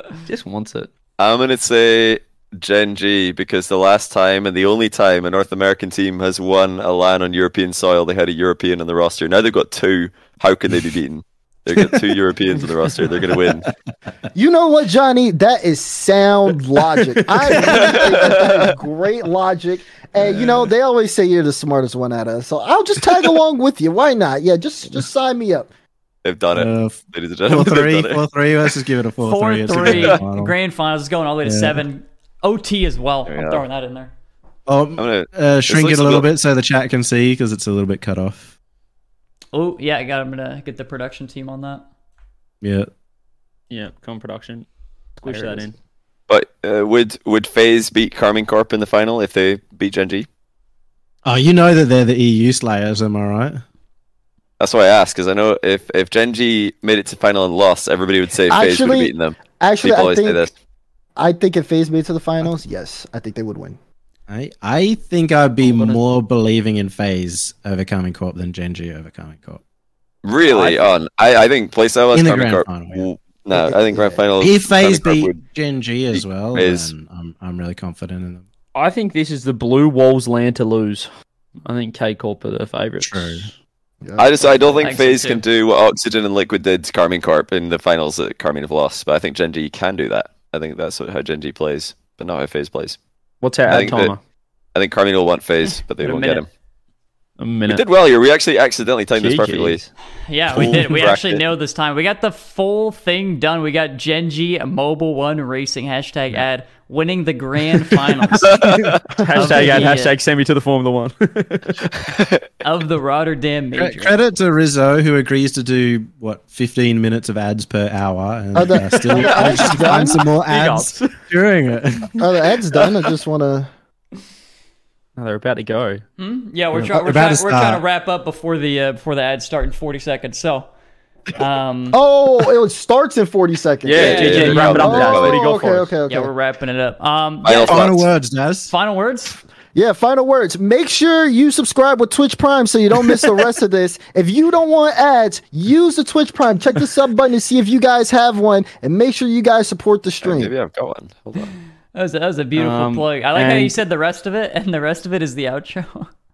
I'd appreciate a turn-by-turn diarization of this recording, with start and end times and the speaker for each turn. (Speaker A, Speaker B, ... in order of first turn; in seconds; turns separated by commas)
Speaker A: 0.3-0.9, Speaker B: 1.2-13.7, Speaker C: 14.3-25.7, Speaker B: 17.6-18.7, Speaker B: 26.2-28.2, Speaker D: 26.5-30.6, Speaker E: 29.2-34.1, Speaker B: 29.8-30.2, Speaker D: 31.4-31.9, Speaker B: 33.3-33.6, Speaker D: 34.7-38.5, Speaker B: 35.0-36.3, Speaker E: 39.5-41.8, Speaker D: 42.6-42.9, Speaker A: 43.7-45.7, Speaker B: 46.3-50.3, Speaker D: 51.3-53.6, Speaker B: 54.6-60.5, Speaker C: 58.5-60.5, Speaker C: 61.2-63.8, Speaker D: 64.3-69.6, Speaker A: 65.6-66.1, Speaker B: 70.2-75.4, Speaker A: 70.5-70.9, Speaker D: 72.1-73.1, Speaker C: 73.5-74.2, Speaker D: 74.4-78.5, Speaker B: 76.1-76.9, Speaker A: 78.8-81.1, Speaker A: 81.7-83.5, Speaker D: 83.0-83.5, Speaker C: 84.0-84.7, Speaker B: 84.2-93.0, Speaker E: 84.8-85.4, Speaker A: 93.4-94.2, Speaker B: 93.7-94.1, Speaker B: 94.8-96.5, Speaker A: 96.0-96.4, Speaker A: 97.4-97.8, Speaker B: 97.7-99.8, Speaker A: 99.2-99.9, Speaker E: 100.3-108.7, Speaker B: 100.5-101.4, Speaker B: 108.4-109.0, Speaker A: 109.2-111.8, Speaker C: 109.2-109.9, Speaker E: 109.3-110.2, Speaker B: 112.2-112.5, Speaker E: 112.6-114.2, Speaker D: 113.8-122.3, Speaker C: 118.5-120.2, Speaker A: 119.0-121.2, Speaker C: 122.2-123.7, Speaker A: 125.2-126.0, Speaker E: 126.2-130.7, Speaker D: 126.7-127.8, Speaker E: 131.4-132.0, Speaker C: 131.9-136.3, Speaker A: 133.9-136.0, Speaker B: 133.9-135.4, Speaker E: 134.0-135.0, Speaker E: 136.1-137.9, Speaker B: 137.4-138.1, Speaker D: 137.7-138.7, Speaker E: 138.7-139.4, Speaker C: 139.8-150.5, Speaker B: 150.2-151.5, Speaker E: 151.9-156.1, Speaker A: 152.6-153.8